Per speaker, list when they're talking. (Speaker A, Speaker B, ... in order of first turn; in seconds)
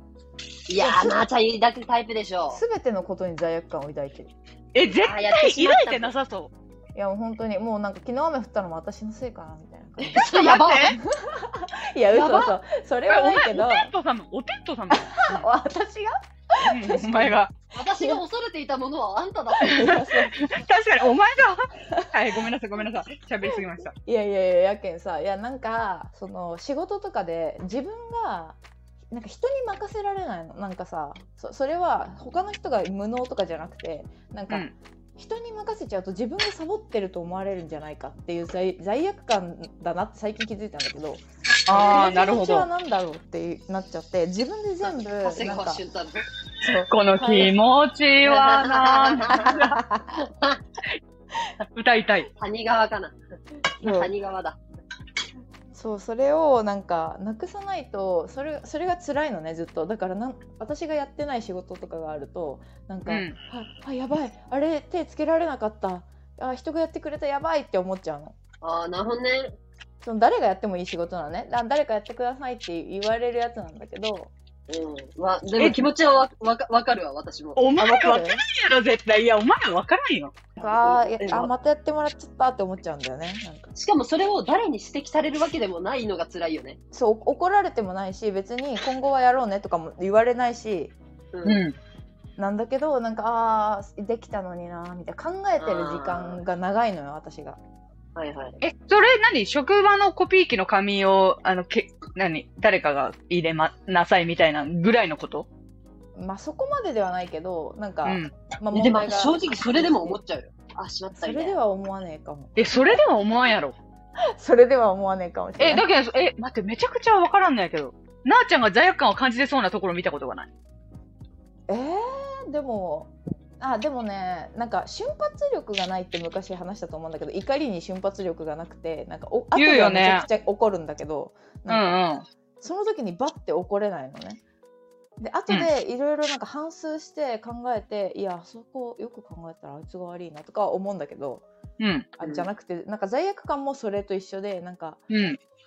Speaker A: 0.7-2.6, 4.9-6.1, 10.0-10.9, 17.7-20.0, 45.2-46.2, 48.2-50.6, 52.3-53.1, 53.8-54.6, 68.6-69.5, 74.7-77.6, 80.6-81.5, 83.7-86.8, 91.3-91.6, 95.6-96.4, 98.2-98.6, 108.7-111.6, 142.2-142.5
Speaker B: 0.8-1.3, 2.5-4.3, 7.0-13.9, 14.9-18.2, 19.6-20.5, 24.0-28.6, 29.1-45.8, 46.6-47.5, 49.3-50.2, 53.8-54.1, 55.7-68.3, 70.0-74.3, 77.8-78.4, 80.6-83.7, 86.9-90.9, 92.4-97.6, 106.2-110.2, 111.1-113.0, 114.3-115.8, 121.7-132.0, 132.6-134.4, 135.2-141.4, 142.2-145.0
Speaker C: 4.7-6.5, 10.1-11.0, 12.1-12.5, 13.1-15.5, 16.7-17.5, 19.9-23.9, 41.6-42.7, 46.9-49.8, 51.7-52.3, 63.1-63.4, 75.6-75.8, 77.5-80.4, 91.4-91.8, 98.6-105.5, 108.0-108.3, 112.5-113.8, 115.6-120.5, 129.5-130.3, 131.7-132.2, 141.8-142.1, 145.1-145.4